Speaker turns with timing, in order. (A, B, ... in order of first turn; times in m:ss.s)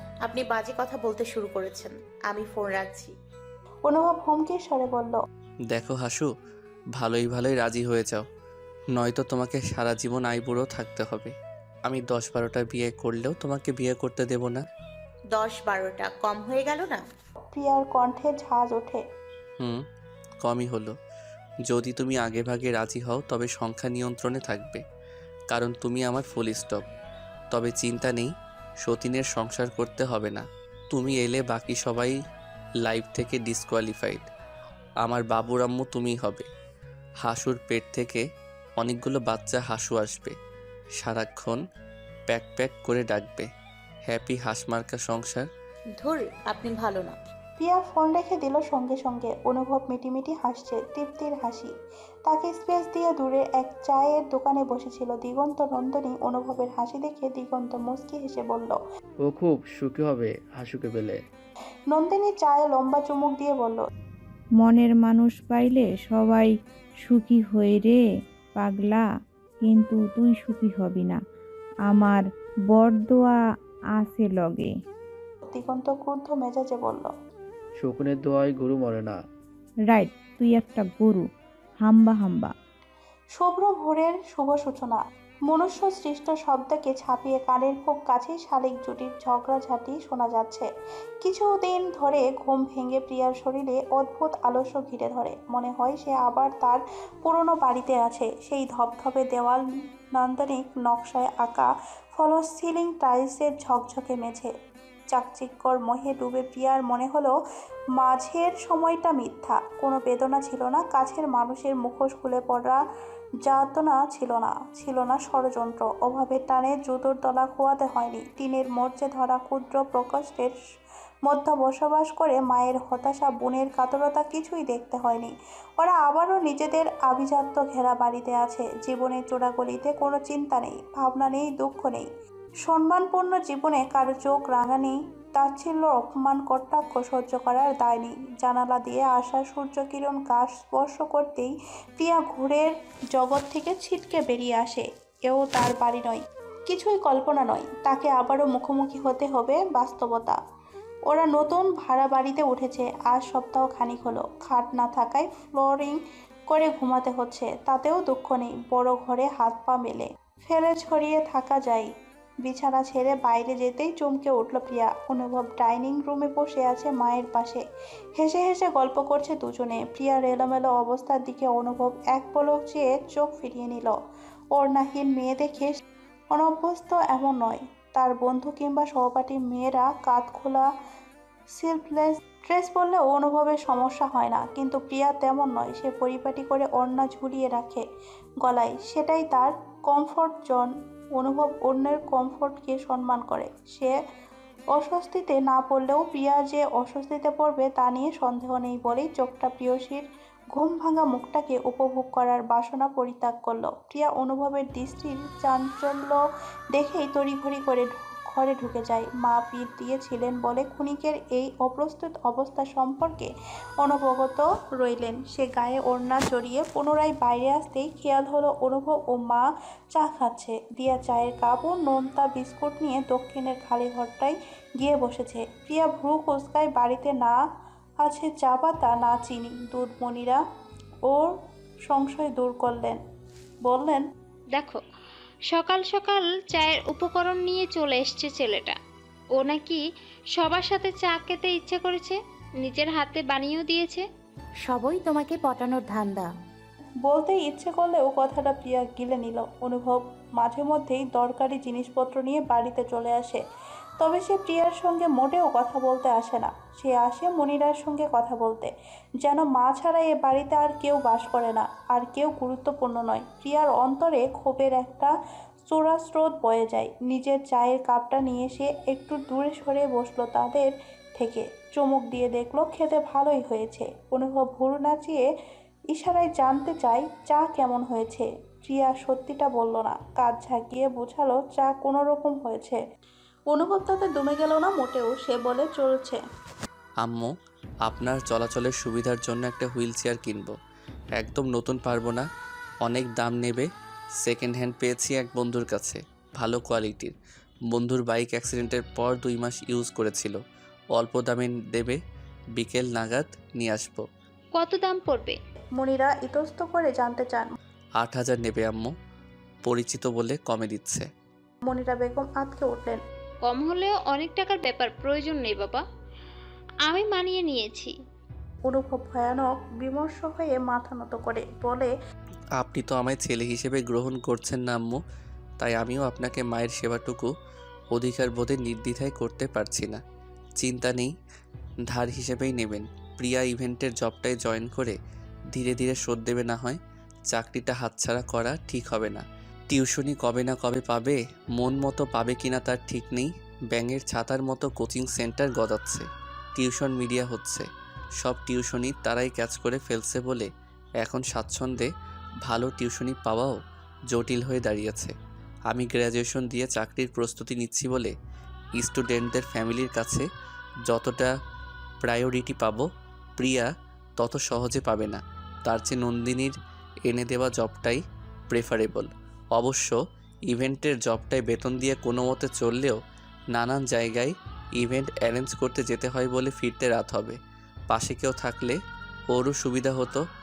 0:00.2-0:03.1 A
0:03.9-0:05.2 B
0:05.7-0:06.3 C
0:07.0-0:08.2 C
0:08.9-0:11.3 C
0:11.8-0:14.6 C
0:15.3-0:17.0 A
0:17.5-0:19.0 B
0:20.4-0:20.9 C
0:21.6-0:24.8 C
0:25.5-0:26.8 C
0:27.5-0:28.3 C
0:28.8-0:32.1 C
0:32.8-0:34.3 C
0:35.0-0:36.4 C
0:37.2-0:38.2 C
0:38.8-0:40.3 C
0:41.0-0:41.6 C
0:42.3-0:43.5 C
0:44.1-0:45.5 C
0:46.0-0:47.2 A
0:47.6-0:51.7 B
0:52.2-0:58.8 B
0:59.2-1:01.1 D
1:01.9-1:03.8 B
1:04.6-1:06.5 E
1:07.1-1:08.0 E
1:08.6-1:09.0 E
1:09.8-1:11.1 E
1:12.7-1:13.4 E
1:14.0-1:14.6 E
1:15.5-1:17.1 B
1:17.8-1:19.1 D
1:20.0-1:21.2 E
1:21.9-1:22.5 E
1:23.4-1:30.7 B
1:31.2-1:39.6 B
1:40.2-1:44.5 B
1:45.1-1:47.3 B
1:48.0-1:52.8 B
1:53.4-2:00.5 B
2:01.2-2:12.1 B
2:12.6-2:30.4 B
2:31.1-2:36.0 B
2:36.5-2:41.9 B
2:42.4-2:47.6 B
2:48.2-2:53.9 B
2:54.5-2:55.8 B
2:56.3-3:00.7 B
3:01.5-3:07.8 B
3:08.4-3:13.9 B
3:14.7-3:26.2 B
3:26.7-3:33.3 B
3:33.8-3:47.4 B
3:48.0-3:50.4 B
3:51.1-3:51.3 B
3:51.9-3:53.0 B
3:53.6-3:54.0 B
3:54.5-3:54.8 F
3:55.5-3:58.8 F
3:59.3-3:59.8 F
4:00.3-4:04.0 F
4:04.6-4:06.3 A
4:07.0-4:13.4 B
4:14.0-4:18.7 B
4:19.2-4:25.1 B
4:25.7-4:35.2 B
4:35.9-4:42.8 B
4:43.5-4:46.2 B
4:47.0-4:47.3 C
4:47.8-4:50.5 C
4:51.2-4:52.2 C
4:52.8-4:53.7 C
4:54.2-4:57.1 C
4:57.7-5:00.4 C
5:00.9-5:02.0 C
5:02.6-5:04.0 C
5:04.5-5:05.4 F
5:05.8-5:07.5 B
5:08.0-5:08.9 C
5:09.6-5:11.1 C
5:11.6-5:13.0 B
5:13.4-5:15.8 F
5:16.9-5:17.9 F
5:18.7-5:21.9 B
5:22.6-5:25.0 C
5:25.6-5:27.3 C
5:27.9-5:30.0 C
5:30.6-5:31.1 C
5:31.9-5:35.0 C
5:35.5-5:36.8 C
5:37.3-5:46.0 C
5:46.6-5:47.6 C
5:48.2-5:50.5 C
5:51.0-5:51.9 C
5:52.4-5:53.6 C
5:54.1-5:55.1 C
5:55.7-5:58.1 C
5:58.8-6:00.2 C
6:00.9-6:01.3 C
6:02.0-6:02.8 C
6:03.4-6:06.5 C
6:07.1-6:10.0 C
6:10.5-6:13.0 C
6:13.5-6:17.4 C
6:17.9-6:18.8 C
6:19.3-6:20.2 C